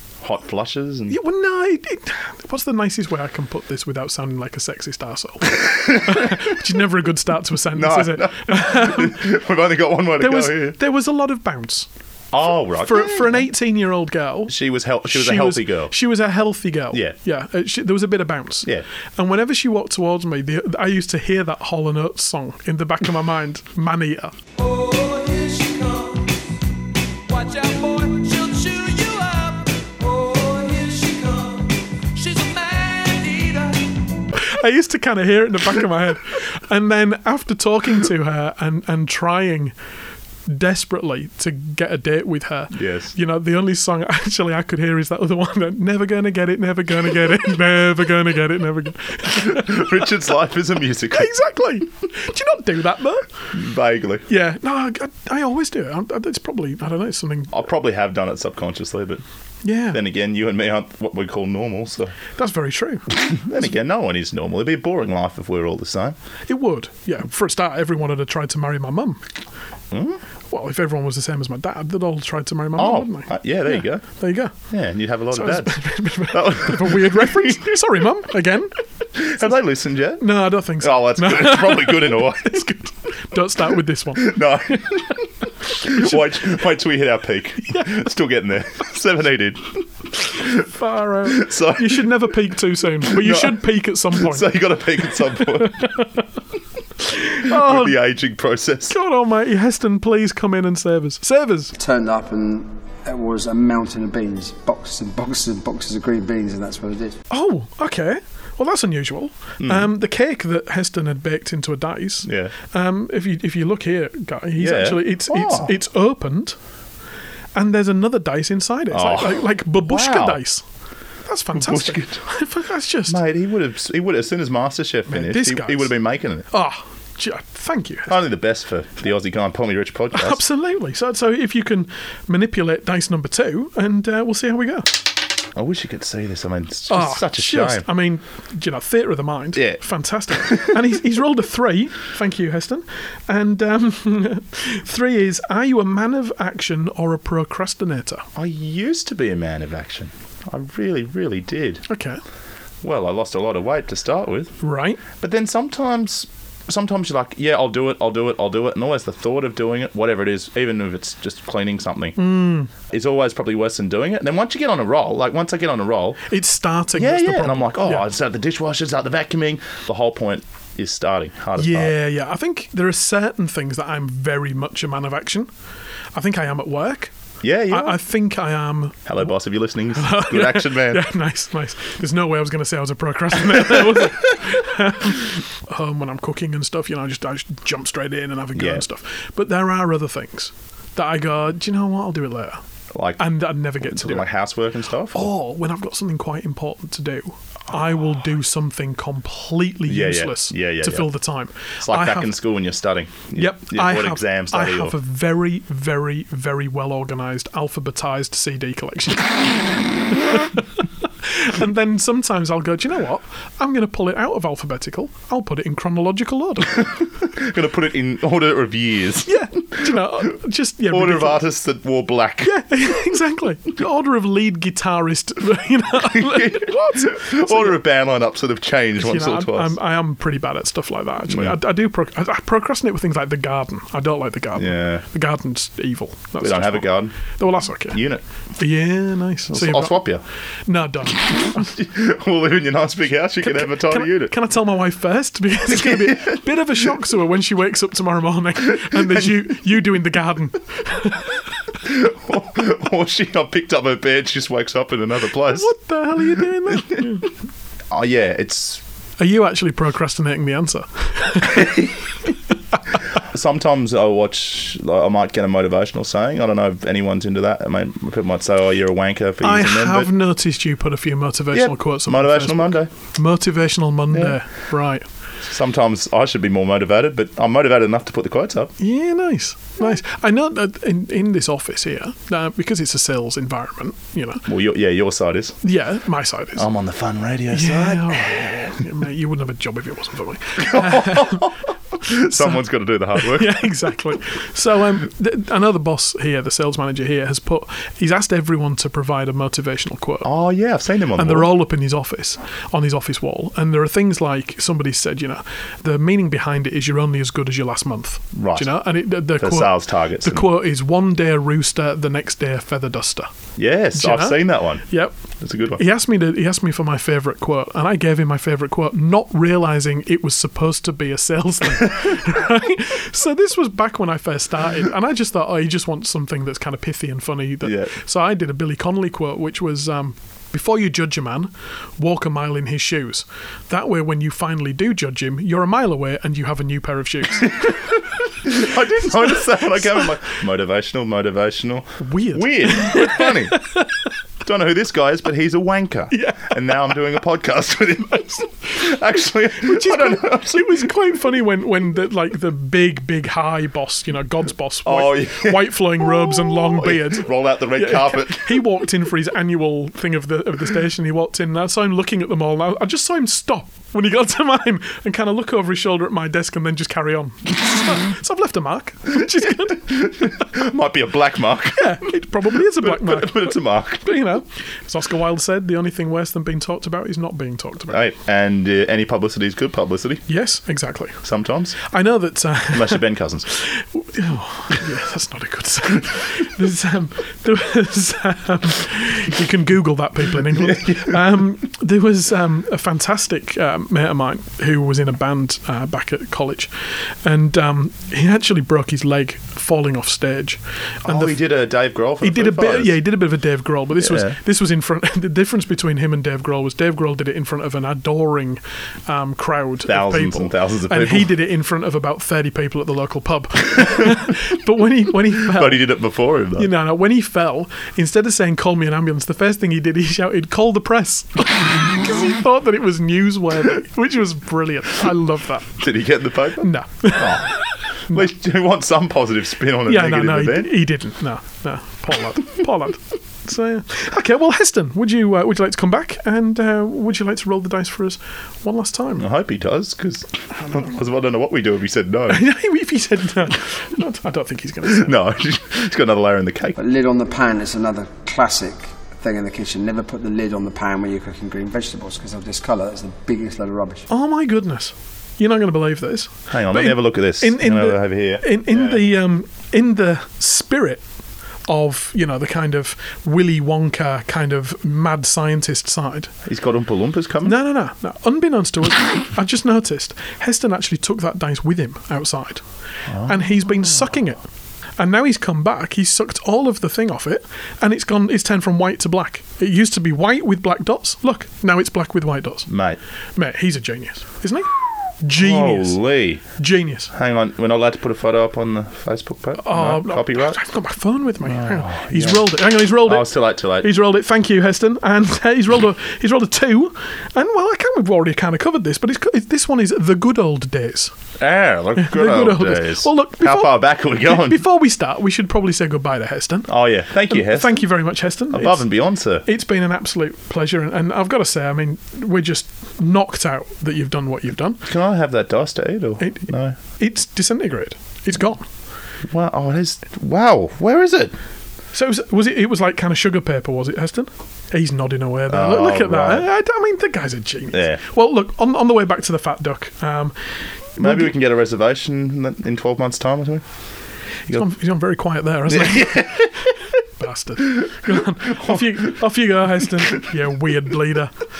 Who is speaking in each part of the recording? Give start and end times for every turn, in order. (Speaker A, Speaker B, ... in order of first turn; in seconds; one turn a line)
Speaker A: 0.2-1.2
Speaker B: 1.1-9.3
Speaker A: 5.6-6.5
Speaker A: 7.7-10.8
Speaker B: 10.2-11.9
Speaker A: 12.3-13.4
Speaker B: 12.7-24.4
Speaker A: 14.5-15.9
Speaker C: 24.6-26.3
Speaker C: 27.3-34.0
Speaker B: 34.3-39.8
Speaker B: 40.5-50.1
Speaker A: 42.7-43.1
Speaker A: 49.2-51.3
Speaker B: 51.1-53.3
Speaker A: 53.5-54.3
Speaker B: 54.3-57.5
Speaker A: 57.5-59.2
Speaker B: 59.6-60.0
Speaker A: 59.9-62.1
Speaker B: 62.4-63.1
Speaker A: 63.2-66.2
Speaker B: 66.5-69.2
Speaker A: 69.9-70.2
Speaker B: 70.5-74.5
Speaker A: 72.8-74.0
Speaker A: 74.7-77.8
Speaker B: 75.3-78.8
Speaker A: 79.2-82.7
Speaker B: 80.2-85.0
Speaker A: 84.2-90.6
Speaker B: 85.8-86.1
Speaker B: 87.7-88.0
Speaker B: 90.4-96.3
Speaker A: 91.2-92.2
Speaker A: 93.0-95.9
Speaker B: 97.0-98.0
Speaker A: 97.4-98.9
Speaker B: 98.9-101.7
Speaker D: 101.8-107.2
Speaker B: 107.3-116.6
Speaker A: 109.6-109.9
Speaker A: 112.2-112.5
Speaker A: 114.6-115.7
Speaker B: 117.6-120.6
Speaker A: 118.9-120.4
Speaker B: 121.2-123.2
Speaker A: 121.5-122.2
Speaker A: 123.1-126.5
Speaker B: 125.1-125.9
Speaker B: 126.5-128.2
Speaker A: 128.1-130.4
Speaker B: 130.1-134.9
Speaker A: 135.6-137.9
Speaker B: 136.9-148.3
Speaker A: 140.3-140.8
Speaker A: 148.4-151.8
Speaker B: 151.9-152.2
Speaker A: 152.8-154.6
Speaker B: 154.6-155.0
Speaker A: 155.1-166.2
Speaker B: 162.2-162.7
Speaker B: 166.3-168.1
Speaker A: 166.9-171.9
Speaker B: 171.6-175.5
Speaker B: 176.1-177.1
Speaker A: 177.4-178.0
Speaker B: 177.7-179.1
Speaker A: 179.1-181.1
Speaker B: 179.9-192.6
Speaker A: 188.6-188.8
Speaker A: 192.9-193.3
Speaker B: 193.2-194.3
Speaker A: 193.8-195.3
Speaker B: 195.1-202.3
Speaker A: 199.9-201.1
Speaker A: 201.8-205.0
Speaker B: 203.3-217.0
Speaker A: 216.8-220.2
Speaker B: 219.2-221.4
Speaker A: 220.9-222.6
Speaker B: 222.4-227.8
Speaker A: 226.0-229.8
Speaker B: 229.0-238.0
Speaker A: 231.3-231.6
Speaker A: 234.6-235.0
Speaker A: 236.4-237.2
Speaker A: 237.9-238.2
Speaker B: 238.6-240.0
Speaker A: 239.5-240.2
Speaker B: 240.7-241.7
Speaker A: 241.4-244.3
Speaker B: 243.4-251.5
Speaker A: 245.7-246.8
Speaker A: 248.9-249.4
Speaker A: 251.8-255.7
Speaker B: 255.4-257.3
Speaker A: 256.7-257.2
Speaker A: 257.9-258.8
Speaker B: 259.2-261.9
Speaker A: 261.4-261.9
Speaker A: 263.1-270.1
Speaker B: 269.4-275.1
Speaker A: 271.5-272.9
Speaker A: 274.1-274.4
Speaker A: 275.5-278.7
Speaker B: 278.8-284.4
Speaker A: 284.5-285.6
Speaker B: 285.6-286.7
Speaker A: 286.6-288.7
Speaker B: 287.5-291.5
Speaker A: 290.6-293.7
Speaker B: 292.1-292.6
Speaker B: 293.1-300.3
Speaker A: 300.2-301.5
Speaker B: 301.1-313.3
Speaker A: 308.3-308.8
Speaker A: 309.4-310.5
Speaker A: 313.6-314.8
Speaker B: 313.9-315.1
Speaker A: 315.4-315.8
Speaker B: 315.7-338.0
Speaker A: 327.6-327.9
Speaker A: 338.4-343.6
Speaker B: 338.7-339.3
Speaker B: 342.0-343.9
Speaker A: 344.4-350.9
Speaker B: 346.1-346.9
Speaker B: 349.6-370.0
Speaker A: 354.9-358.7
Speaker A: 369.7-374.1
Speaker B: 371.8-378.0
Speaker A: 377.9-380.2
Speaker B: 380.3-381.2
Speaker A: 381.2-381.8
Speaker B: 381.8-401.4
Speaker A: 382.7-383.5
Speaker A: 390.5-391.2
Speaker A: 401.1-403.0
Speaker B: 402.2-415.9
Speaker A: 404.0-404.4
Speaker A: 409.9-411.3
Speaker A: 415.4-416.7
Speaker B: 416.6-425.8
Speaker A: 425.8-430.8
Speaker B: 426.6-428.3
Speaker B: 429.9-439.3
Speaker A: 439.2-442.5
Speaker B: 442.3-445.1
Speaker A: 444.8-446.8
Speaker D: 446.8-454.1
Speaker B: 454.1-461.0
Speaker A: 456.5-459.0
Speaker B: 461.7-466.3
Speaker A: 466.4-467.6
Speaker B: 467.4-472.6
Speaker A: 473.1-473.4
Speaker B: 473.2-474.4
Speaker B: 475.0-482.7
Speaker A: 482.7-483.0
Speaker B: 483.4-486.0
Speaker A: 485.3-486.4
Speaker B: 486.6-487.1
Speaker A: 487.1-490.6
Speaker B: 489.6-501.1
Speaker A: 491.4-493.9
Speaker A: 501.4-504.6
Speaker B: 502.0-508.9
Speaker A: 506.7-507.9
Speaker A: 508.5-509.5
Speaker B: 509.4-514.9
Speaker A: 514.9-516.8
Speaker B: 516.2-518.7
Speaker A: 519.3-521.4
Speaker B: 521.9-530.4
Speaker A: 525.5-526.5
Speaker A: 527.7-528.0
Speaker A: 531.0-533.6
Speaker B: 531.0-531.3
Speaker B: 534.5-536.5
Speaker A: 535.7-536.5
Speaker B: 537.2-541.3
Speaker A: 538.6-539.0